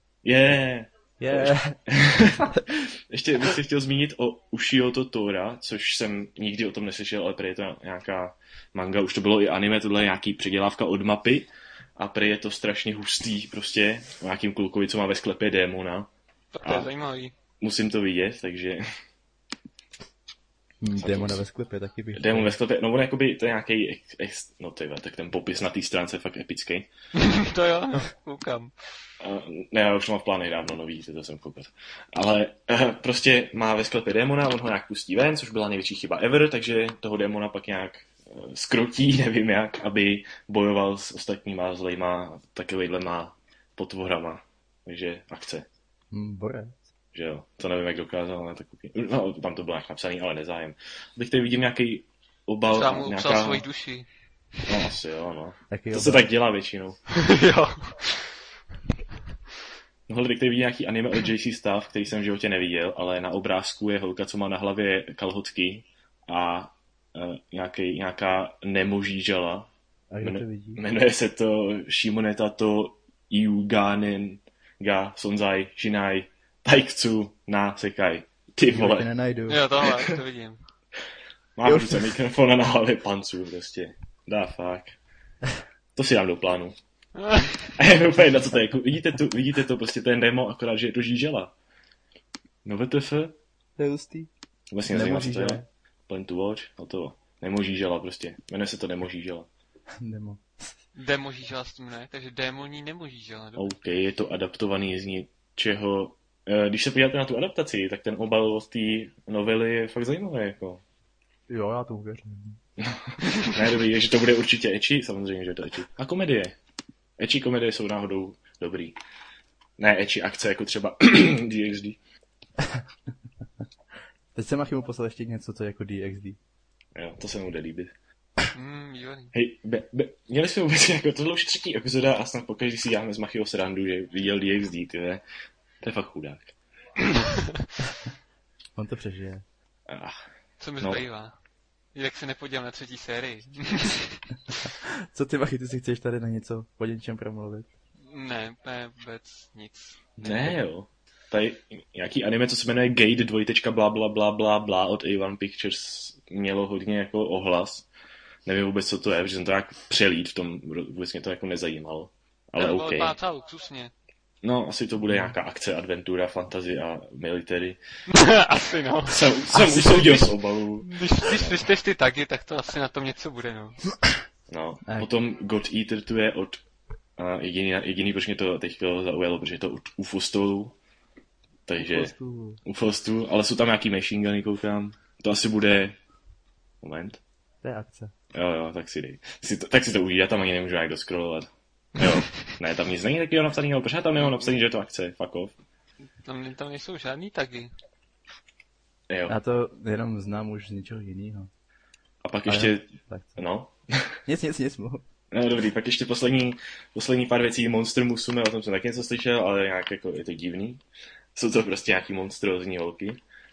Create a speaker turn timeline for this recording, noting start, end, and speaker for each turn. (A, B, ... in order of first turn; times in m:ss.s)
0:00.2-0:16.1 A
0:01.2-0:02.7 B
0:16.5-0:17.3 C
0:16.6-0:16.9 A
0:17.6-0:18.8 A
0:20.8-0:22.5 B
0:20.9-0:21.4 A
0:22.1-0:26.9 A
0:27.1-0:28.7 C
0:29.2-0:45.6 A
0:46.1-0:46.8 B
0:47.1-0:53.6 A
0:52.7-0:54.1 C
0:54.6-0:57.0 A
0:55.7-0:56.3 B
0:57.1-0:58.3 C
1:00.1-1:09.7 A
1:10.1-1:10.8 B
1:10.2-1:19.1 A
1:18.7-1:19.6 B
1:19.5-1:20.6 C
1:21.6-1:25.0 A
1:21.6-1:22.1 B
1:26.0-1:26.8 A
1:27.2-1:27.7 C
1:27.8-1:31.5 A
1:32.6-1:33.4 A
1:33.8-1:34.3 B
1:34.7-1:39.5 A
1:34.9-1:35.6 B
1:40.0-1:40.8 B
1:40.9-1:43.7 C
1:43.6-1:50.8 A
1:51.5-1:52.6 B
1:52.8-1:56.6 A
1:57.2-1:59.0 A
1:59.8-2:02.0 A
2:02.6-2:02.8 B
2:04.3-2:06.4 B
2:06.9-2:07.9 A
2:08.5-2:09.3 C
2:09.3-2:15.2 A
2:15.8-2:16.5 A
2:18.8-2:19.4 B
2:19.9-2:20.2 A
2:20.6-2:21.4 C
2:21.9-2:24.2 C
2:24.8-2:27.7 B
2:28.0-2:30.0 C
2:30.2-2:30.6 B
2:30.2-2:37.9 A
2:38.4-2:43.1 A
2:42.6-2:43.9 C
2:44.4-2:47.8 A
2:48.1-2:49.3 C
2:49.1-2:51.7 A
2:49.5-2:50.2 B
2:50.8-2:53.8 C
2:54.5-2:56.6 A
2:57.2-3:00.8 A
3:01.7-3:06.0 A
3:01.8-3:02.6 B
3:06.8-3:07.2 A
3:07.6-3:08.1 B
3:08.3-3:15.5 A
3:12.0-3:12.2 C
3:16.2-3:17.7 C
3:19.1-3:19.4 A
3:19.3-3:21.5 B
3:22.2-3:24.2 A
3:22.5-3:23.4 B
3:24.2-3:25.0 B
3:25.3-3:30.8 A
3:31.3-3:33.2 A